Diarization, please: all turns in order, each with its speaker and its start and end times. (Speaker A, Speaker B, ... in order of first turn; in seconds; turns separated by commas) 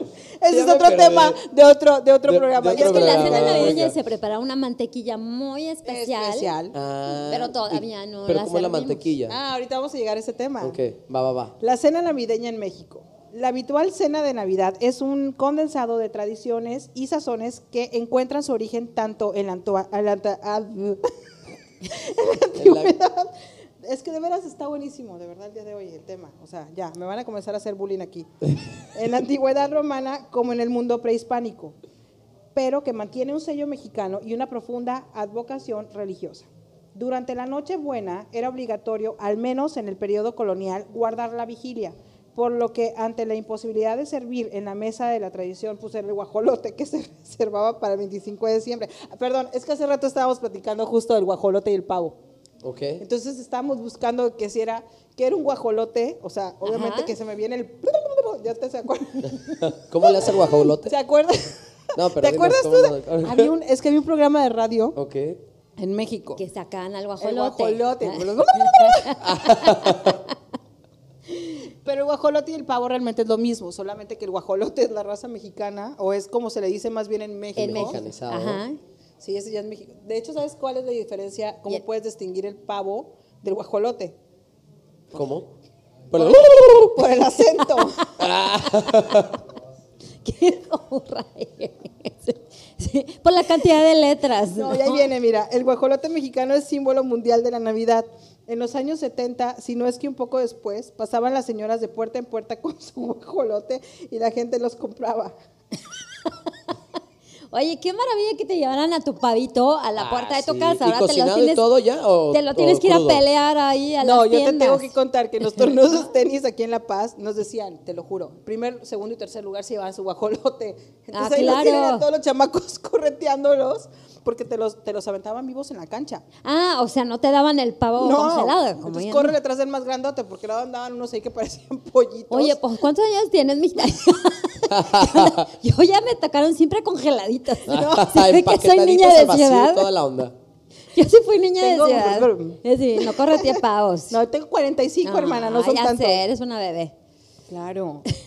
Speaker A: 0.4-3.9, Speaker B: 0.5-1.4, Speaker B: 2.2-4.0, Speaker C: 2.7-6.5, Speaker A: 5.8-6.7, Speaker B: 6.7-9.3, Speaker C: 7.2-9.1, Speaker A: 9.3-10.8, Speaker B: 10.6-11.5, Speaker A: 11.6-21.1, Speaker A: 21.8-28.3, Speaker B: 22.6-22.9, Speaker A: 28.9-31.8, Speaker A: 32.5-52.2, Speaker B: 52.6-53.0, Speaker A: 53.0-65.0, Speaker C: 56.6-57.1, Speaker B: 59.5-60.9, Speaker B: 61.9-63.5, Speaker B: 64.9-65.4, Speaker A: 65.8-66.4, Speaker C: 66.4-70.0, Speaker A: 67.2-69.2, Speaker B: 69.2-70.2, Speaker A: 71.5-78.0, Speaker B: 77.5-78.6, Speaker C: 77.6-78.8, Speaker A: 79.2-84.2, Speaker B: 85.1-85.5, Speaker B: 86.1-86.7, Speaker A: 86.1-88.0, Speaker C: 87.6-88.0, Speaker B: 88.2-89.4, Speaker C: 90.2-95.1, Speaker A: 94.5-105.3, Speaker C: 107.5-111.6, Speaker B: 110.0-113.2, Speaker C: 112.3-114.9, Speaker A: 114.0-126.2, Speaker C: 115.5-115.9, Speaker C: 121.1-122.0, Speaker C: 126.4-129.3, Speaker A: 128.0-132.6, Speaker C: 132.3-139.9, Speaker B: 134.7-135.5, Speaker A: 137.7-138.2, Speaker B: 137.7-140.3, Speaker C: 140.9-144.2, Speaker A: 141.6-146.2, Speaker C: 145.0-146.9, Speaker A: 147.5-148.0